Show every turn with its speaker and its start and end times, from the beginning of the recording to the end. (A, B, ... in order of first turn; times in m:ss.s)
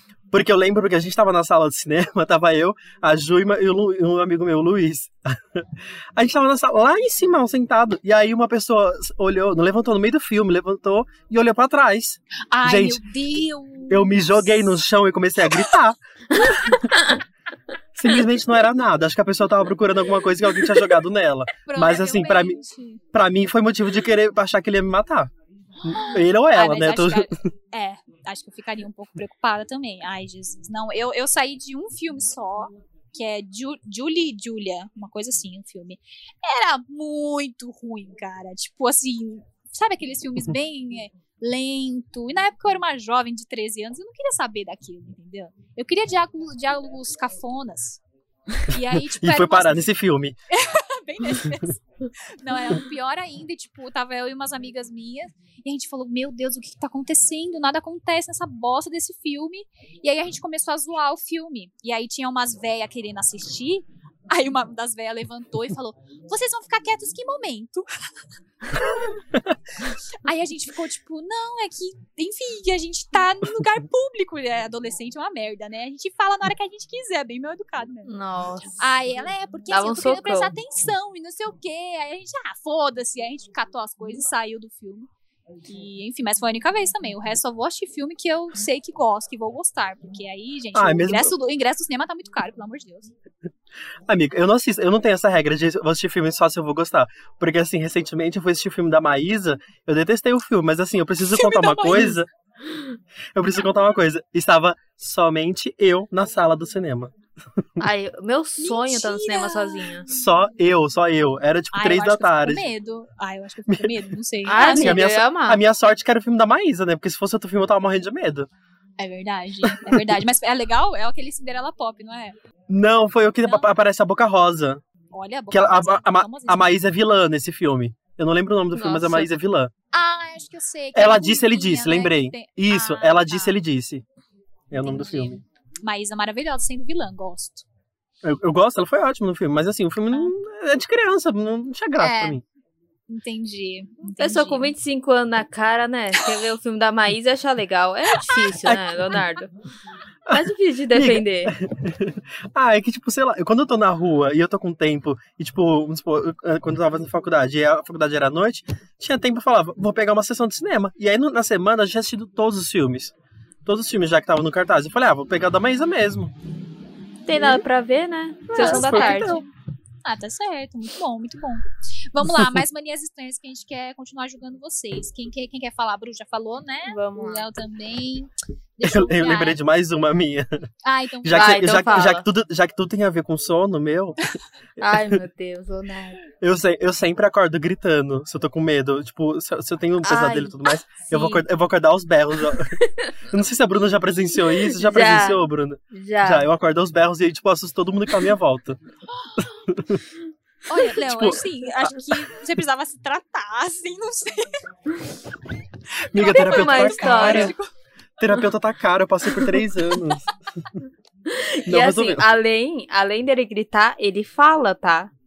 0:00.3-0:13.0 A
0:12.5-0:14.7 B
0:13.9-0:16.9 A
0:16.9-0:17.2 C
0:18.0-0:22.6 A
0:21.6-0:23.0 B
0:23.1-0:25.3 A
0:25.8-0:48.0 B
0:25.8-0:27.4 A
0:48.6-0:49.9 B
0:49.1-0:50.4 A
0:50.5-1:07.9 B
1:08.6-1:09.2 B
1:09.8-1:18.1 B
1:18.0-1:18.7 C
1:18.7-1:25.1 B
1:19.7-1:20.5 C
1:25.7-1:33.1 B
1:30.7-1:31.3 A
1:34.1-1:42.3 A
1:41.3-1:42.2 B
1:43.3-1:47.1 A
1:47.8-1:50.1 C
1:48.6-1:50.1 B
1:50.1-1:52.7 A
1:51.7-1:55.0 B
1:53.7-1:58.5 A
1:54.4-1:55.6 C
1:59.0-2:02.4 B
1:59.7-2:00.0 A
2:02.7-2:04.8 A
2:05.1-2:06.7 B
2:05.5-2:09.7 A
2:08.7-2:09.3 C
2:09.9-2:13.6 B
2:10.9-2:14.0 A
2:14.7-2:15.4 A
2:14.8-2:17.6 B
2:18.2-2:22.4 A
2:22.0-2:22.4 B
2:23.1-2:24.7 B
2:24.2-2:29.5 C
2:28.6-2:29.2 A
2:30.3-2:31.5 C
2:30.3-2:43.1 A
2:43.6-2:46.3 A
2:47.3-2:49.4 C
2:48.5-2:49.4 A
2:48.5-2:49.5 B
2:50.0-2:59.6 B
2:56.8-2:57.5 C
2:58.8-3:00.7 A
3:00.8-3:02.1 B
3:01.2-3:05.2 A
3:01.3-3:02.2 C
3:04.8-3:06.2 C
3:06.4-3:12.8 A
3:10.0-3:10.6 C
3:11.1-3:11.4 C
3:12.5-3:13.1 C
3:13.3-3:18.8 A
3:14.5-3:16.5 C
3:19.4-3:20.0 A
3:20.6-3:24.6 B
3:20.9-3:22.1 A
3:26.1-3:27.6 A
3:26.1-3:27.7 B
3:26.2-3:27.6 C
3:28.2-3:30.3 A
3:31.2-3:35.1 C
3:31.7-3:32.2 A